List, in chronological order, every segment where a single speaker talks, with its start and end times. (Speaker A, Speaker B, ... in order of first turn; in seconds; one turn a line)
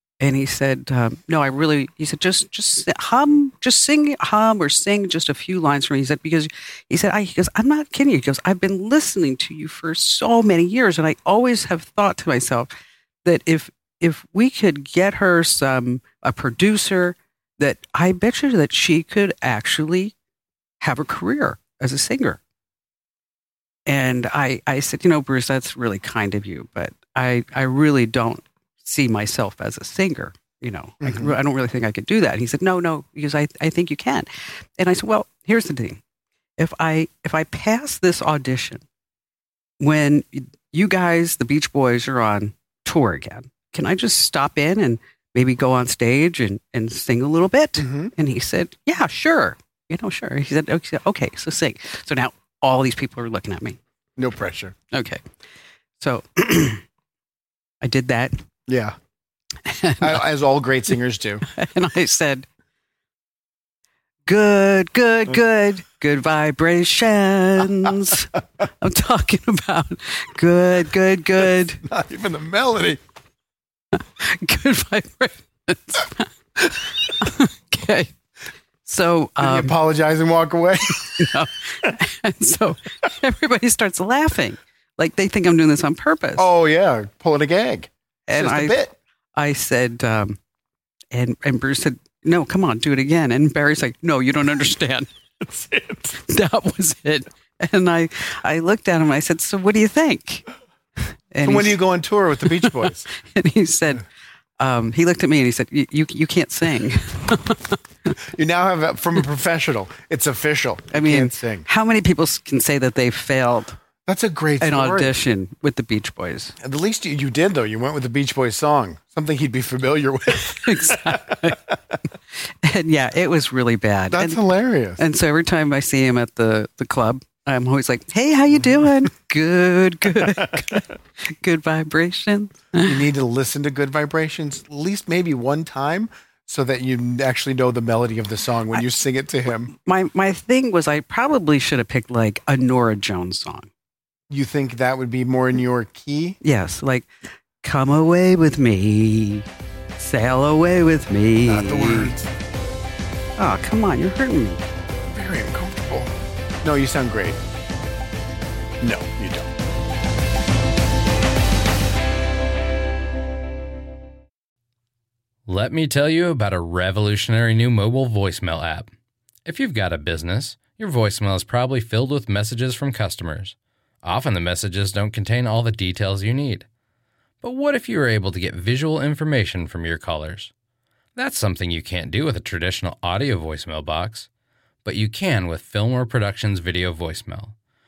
Speaker A: 0.2-12.7
Speaker A: 13.2-20.1
Speaker A: 20.8-22.4
Speaker A: 23.9-34.3
Speaker B: 31.0-31.4
Speaker A: 34.8-36.0
Speaker A: 36.6-38.8
Speaker A: 39.8-53.8
Speaker B: 47.8-48.1
Speaker B: 54.2-54.8
Speaker A: 54.9-55.2
Speaker A: 56.0-56.8
Speaker A: 57.8-58.4
Speaker B: 58.7-59.0
Speaker A: 59.7-60.2
Speaker B: 60.0-61.4
Speaker A: 61.5-62.5
Speaker A: 64.3-71.8
Speaker B: 71.8-73.0
Speaker A: 73.9-78.1
Speaker A: 78.8-79.7
Speaker B: 79.4-81.3
Speaker A: 81.2-86.5
Speaker B: 86.4-88.9
Speaker A: 88.3-88.8
Speaker A: 89.4-90.4
Speaker A: 91.1-95.1
Speaker B: 95.4-96.2
Speaker A: 96.2-100.5
Speaker A: 101.3-101.8
Speaker B: 101.4-103.1
Speaker A: 102.6-104.0
Speaker A: 104.6-107.8
Speaker B: 108.3-111.7
Speaker A: 110.9-113.8
Speaker B: 114.1-115.1
Speaker A: 114.6-116.5
Speaker B: 116.6-121.5
Speaker A: 120.3-121.6
Speaker A: 122.6-124.4
Speaker B: 124.1-125.0
Speaker A: 125.0-133.0
Speaker B: 130.2-130.8
Speaker B: 132.8-139.7
Speaker A: 139.7-143.7
Speaker B: 144.3-146.4
Speaker A: 146.4-147.1
Speaker A: 147.6-149.5
Speaker A: 150.0-152.1
Speaker B: 151.5-152.3
Speaker A: 153.4-154.6
Speaker B: 155.1-157.4
Speaker B: 158.8-159.5
Speaker C: 165.5-168.9
Speaker C: 169.4-176.7
Speaker C: 177.4-180.5
Speaker C: 181.2-184.3
Speaker C: 184.8-187.6